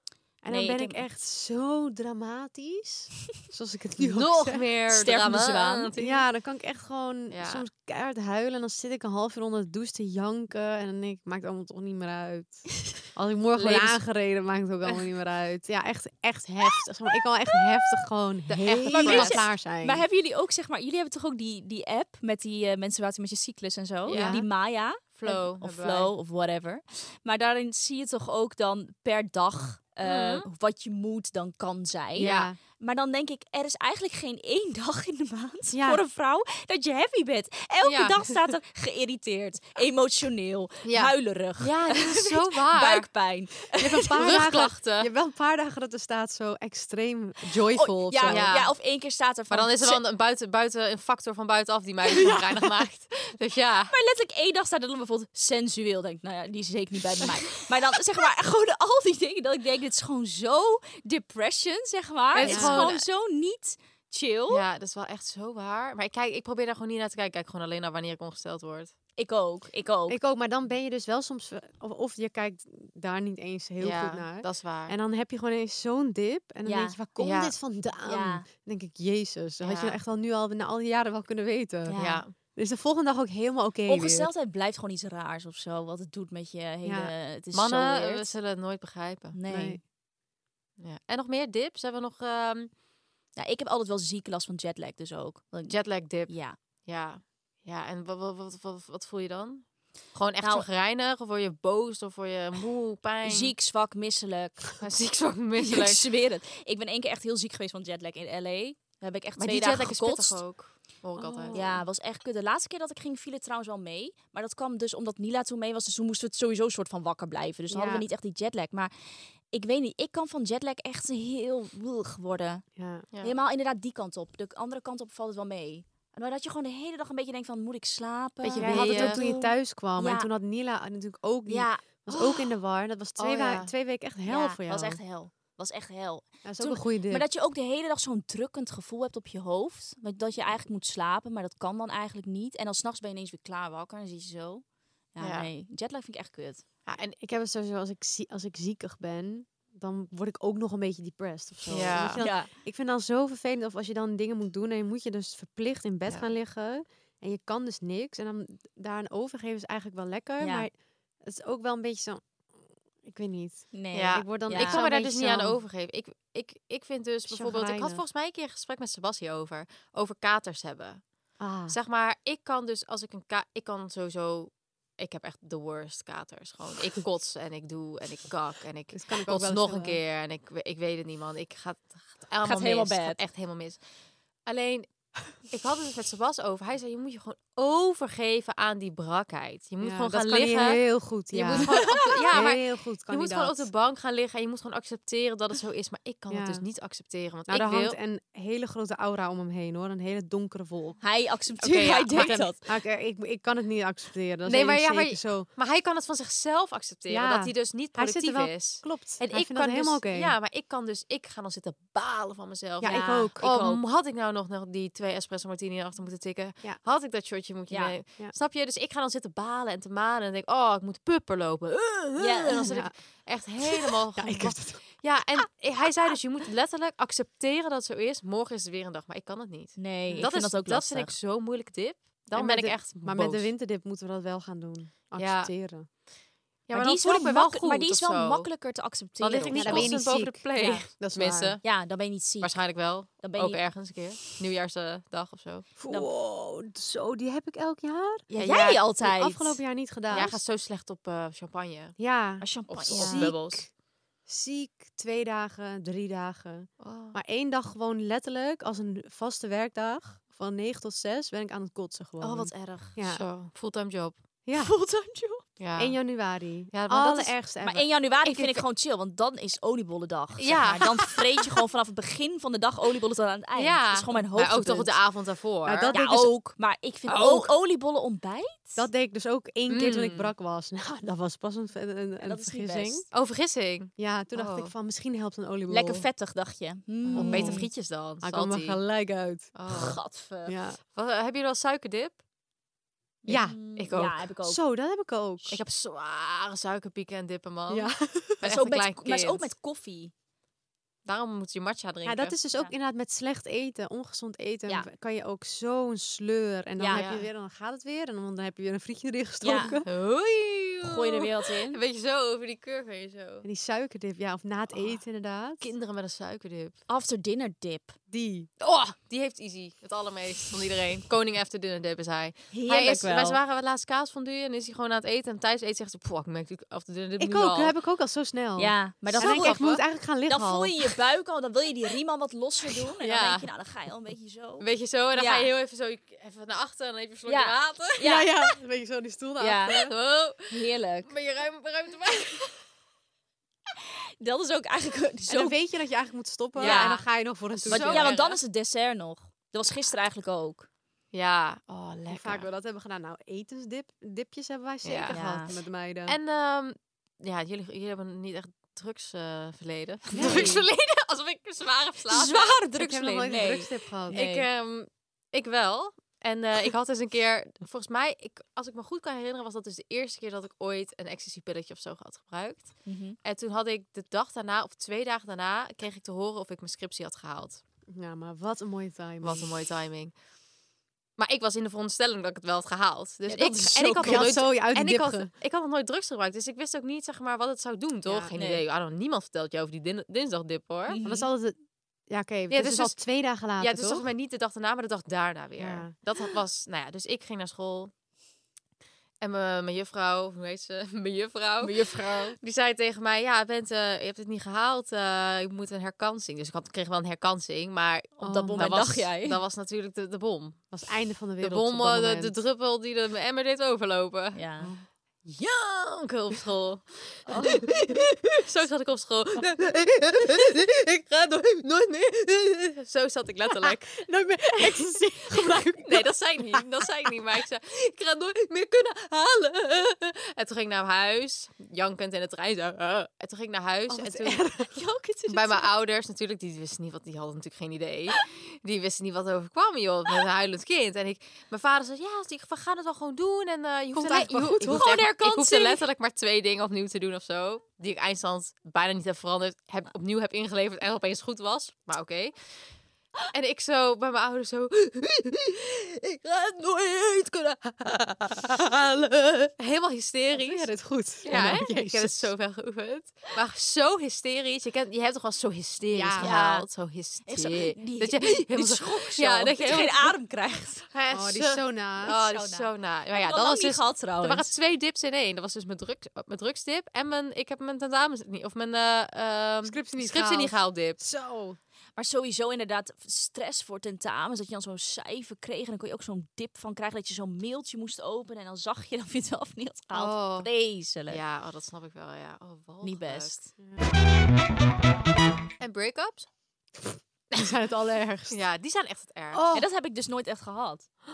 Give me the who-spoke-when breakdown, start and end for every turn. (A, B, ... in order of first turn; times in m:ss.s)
0:00.4-0:04.6 A
0:00.5-0:01.0 B
0:04.0-0:06.2 C
0:04.9-0:05.9 B
0:06.0-0:20.0 A
0:07.3-0:07.6 C
0:13.5-0:14.0 C
0:18.5-0:19.4 C
0:18.8-0:44.2 B
0:24.1-0:24.4 C
0:24.1-0:24.5 A
0:25.0-0:26.1 C
0:30.0-0:30.5 C
0:32.2-0:32.6 A
0:32.2-0:32.5 C
0:35.7-0:36.0 A
0:37.8-0:38.3 C
0:40.8-0:43.1 C
0:43.8-0:48.5 A
0:44.2-0:45.1 C
0:47.7-0:50.0 B
0:48.3-0:48.8 C
0:49.5-0:53.9 C
0:52.1-0:52.5 A
0:53.9-1:04.6 B
1:02.4-1:03.0 C
1:02.5-1:02.8 A
1:04.5-1:08.9 C
1:09.2-1:10.2 B
1:10.1-1:24.3 A
1:13.8-1:15.0 C
1:16.7-1:17.0 B
1:17.2-1:17.6 C
1:18.0-1:18.5 B
1:19.6-1:20.0 C
1:21.9-1:22.2 B
1:22.0-1:22.3 C
1:23.9-1:28.3 B
1:26.8-1:27.1 A
1:27.5-1:29.4 C
1:29.3-1:29.8 B
1:29.5-1:29.8 A
1:30.8-1:32.7 C
1:33.4-1:36.6 B
1:35.7-1:36.4 C
1:36.9-1:43.5 C
1:40.4-1:40.7 B
1:43.2-1:44.8 B
1:44.8-1:46.0 C
1:45.6-1:50.4 B
1:49.4-1:51.6 C
1:51.2-1:51.8 A
1:51.5-2:02.6 B
1:57.7-1:58.1 A
2:02.8-2:03.1 A
2:03.2-2:10.3 B
2:08.4-2:09.2 C
2:08.6-2:15.0 A
2:11.5-2:12.5 B
2:13.2-2:13.7 C
2:14.3-2:26.6 B
2:16.4-2:17.3 A
2:25.2-2:25.5 C
2:26.9-2:27.2 C
2:27.2-2:42.3 A
2:31.6-2:32.5 B
2:31.7-2:32.2 C
2:40.4-2:40.7 B
2:43.0-2:45.6 A
2:43.7-2:44.8 B
2:43.9-2:51.0 C
2:47.3-2:48.0 A
2:51.4-2:51.8 A
2:51.7-3:03.8 C
2:58.9-3:00.0 A
3:02.4-3:03.2 B
3:04.5-3:18.0 C
3:09.8-3:13.7 A
3:11.5-3:11.8 B
3:16.3-3:16.6 A
3:17.5-3:21.0 A
3:21.0-3:22.6 B
3:21.6-3:22.4 C
3:22.1-3:25.5 A
3:24.4-3:53.5 C
3:27.1-3:30.3 A
3:32.8-3:33.4 A
3:32.8-3:33.8 B
3:37.7-3:38.0 B
3:42.2-3:42.8 B
3:42.6-3:42.9 A
3:44.2-3:45.0 A
3:49.8-3:51.2 B
3:52.3-3:55.9 A
3:55.2-3:55.5 C
3:56.7-3:58.5 C
3:56.7-4:00.0 B
3:59.2-4:01.6 C
3:59.6-4:01.6 A
4:00.6-4:00.9 B
4:01.6-4:02.6 B
4:02.4-4:05.7 C
4:03.2-4:03.6 B
4:05.8-4:08.3 A
4:08.3-4:09.6 B
4:08.4-4:08.8 C
4:08.9-4:10.4 A
4:10.1-4:12.0 C
4:12.0-4:13.7 A
4:12.4-4:13.3 B
4:12.7-4:13.6 C
4:14.3-4:23.2 A
4:16.8-4:17.2 C
4:22.2-4:23.0 B
4:23.0-4:24.2 C
4:24.5-4:24.7 A
4:24.6-4:25.4 B
4:25.6-4:26.0 C
4:25.8-4:27.9 A
4:26.7-4:27.3 C
4:27.6-4:35.0 B
4:28.3-4:28.6 C
4:30.4-4:31.2 C
4:33.6-4:36.0 C
4:35.6-4:36.4 A
4:35.9-4:38.9 B
4:37.1-4:37.5 C
4:38.8-4:43.1 A
4:39.7-4:40.3 C
4:42.2-4:43.1 B
4:43.1-4:44.7 C
4:44.0-4:46.1 A
4:45.7-4:47.7 B
4:47.1-4:48.8 C
4:47.2-4:47.7 A
4:48.2-4:49.6 A
4:49.6-4:50.0 C
4:49.7-4:50.6 B
4:50.5-4:50.8 A
4:50.9-4:52.2 C
4:53.2-4:54.6 B
4:53.3-4:55.6 A
4:53.7-4:54.1 C
4:55.5-4:59.5 C
4:57.7-4:58.4 A
4:58.4-5:00.1 B
5:01.0-5:02.4 C
5:02.0-5:09.9 A
5:06.8-5:07.1 B
5:06.9-5:07.3 C
5:09.4-5:09.8 B
5:09.9-5:13.4 C
5:10.8-5:11.8 B
5:13.4-5:15.7 A
5:15.6-5:16.8 C
5:16.9-5:18.0 B
5:18.1-5:18.5 A
5:18.6-5:27.7 C
5:22.5-5:23.4 B
5:27.2-5:30.9 A
5:28.6-5:29.7 B
5:29.2-5:29.8 C
5:30.2-5:35.5 B
5:33.0-5:33.5 C
5:34.6-5:38.0 C
5:37.3-5:38.4 B
5:38.0-5:39.9 A
5:39.4-5:39.9 B
5:39.9-5:40.5 C
5:40.5-5:41.1 B
5:41.1-5:42.6 C
5:44.2-5:45.6 B
5:45.3-5:48.1 A
5:46.6-5:47.0 B
5:46.6-5:48.4 C
5:47.7-5:50.7 B
5:51.1-5:52.5 C
5:52.1-5:56.2 A
5:54.8-5:55.1 C
5:55.1-5:55.6 B
5:56.1-6:02.7 C
6:00.1-6:00.6 A
6:00.2-6:00.5 B
6:02.1-6:04.5 B
6:02.7-6:04.2 A
6:04.1-6:17.6 C
6:12.8-6:13.2 B
6:17.9-6:19.5 A
6:19.2-6:20.1 C
6:21.2-6:31.0 C
6:23.3-6:24.4 B
6:24.0-6:25.3 A
6:28.1-6:28.3 A
6:28.4-6:28.6 B
6:30.9-6:31.3 B
6:31.0-6:31.6 A
6:32.1-6:34.0 A
6:32.5-6:33.0 C
6:33.6-6:37.9 C
6:35.6-6:35.9 A
6:39.2-6:41.7 C
6:41.6-6:42.4 B
6:42.4-6:50.7 C
6:48.2-6:48.8 A
6:48.2-6:49.4 B
6:50.7-6:52.4 A
6:51.4-6:54.4 C
6:54.3-6:54.7 B
6:55.3-7:04.0 C
7:04.0-7:06.1 A
7:04.6-7:14.4 C
7:13.9-7:14.7 A
7:14.8-7:15.7 B
7:15.3-7:32.6 C
7:24.0-7:25.0 A
7:24.2-7:25.8 B
7:33.3-7:40.7 C
7:40.3-7:42.3 A
7:41.2-7:50.1 C
7:41.3-7:41.6 B
7:45.9-7:46.3 A
7:46.2-7:46.7 B
7:47.2-7:50.9 B
7:51.1-7:52.1 A
7:51.1-8:01.0 C
7:52.0-7:54.5 B
7:59.6-8:01.6 A
8:02.0-8:11.2 B
8:09.9-8:10.5 C
8:11.1-8:13.4 C
8:12.8-8:13.5 B
8:15.6-8:16.3 C
8:17.3-8:18.4 A
8:18.3-8:19.4 C
8:19.3-8:19.7 A
8:19.5-8:20.9 B